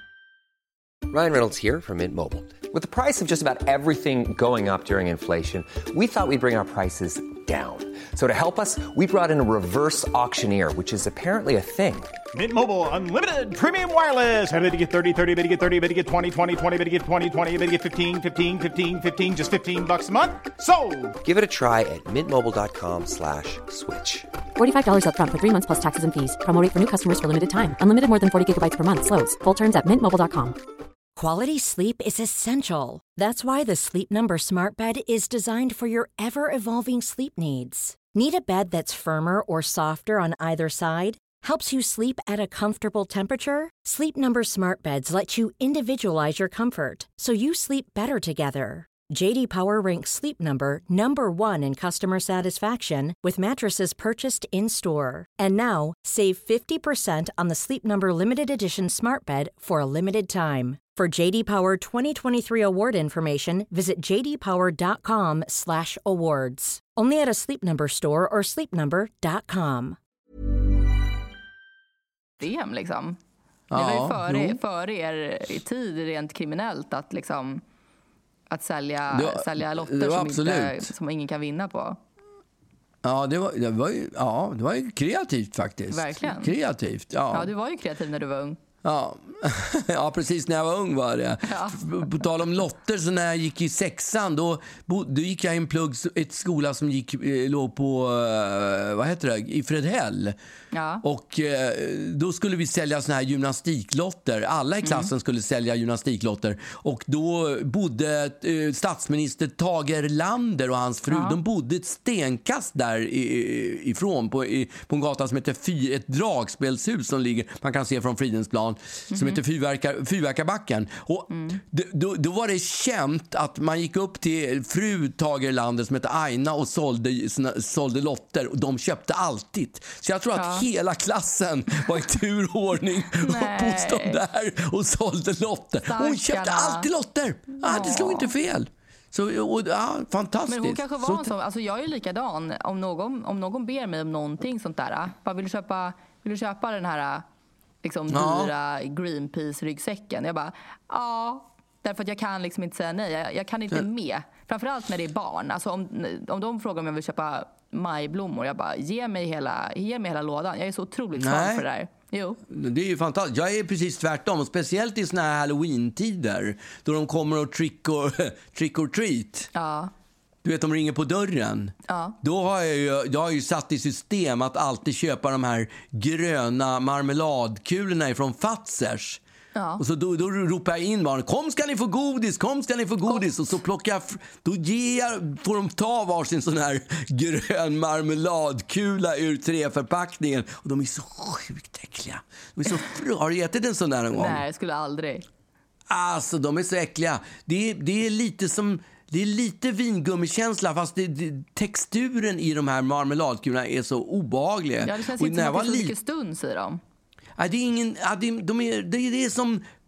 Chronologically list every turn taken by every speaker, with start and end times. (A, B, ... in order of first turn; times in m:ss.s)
0:01.1-0:12.1 A
0:12.4-0:21.0 B
0:21.2-0:24.3 A
0:24.6-0:30.6 C
0:31.2-1:10.0 D
1:12.4-1:13.2 E
1:13.7-1:14.6 F
1:13.7-1:17.6 E
1:18.5-1:22.0 E
1:19.1-1:20.9 F
1:23.0-1:27.5 F
1:25.9-1:26.5 E
1:27.3-1:28.6 E
1:28.8-1:40.4 F
1:31.5-1:31.8 E
1:40.7-1:41.0 E
1:41.0-2:21.3 F
1:44.8-1:45.1 E
1:51.1-1:51.4 E
1:59.1-1:59.4 E
2:01.3-2:01.6 E
2:10.4-2:10.7 E
2:13.2-2:14.2 E
2:15.9-2:16.9 E
2:17.6-2:18.3 E
2:20.5-2:27.2 E
2:27.8-2:42.4 E
2:28.1-2:28.5 F
2:41.2-2:41.6 F
2:42.5-2:49.5 F
2:49.6-2:49.9 E
2:50.4-2:59.2 F
2:51.9-2:52.2 E
2:59.6-2:59.8 E
2:59.8-3:14.4 F
3:14.2-3:15.2 E
3:15.9-3:25.9 F
3:24.8-3:26.8 E
3:27.4-3:29.6 F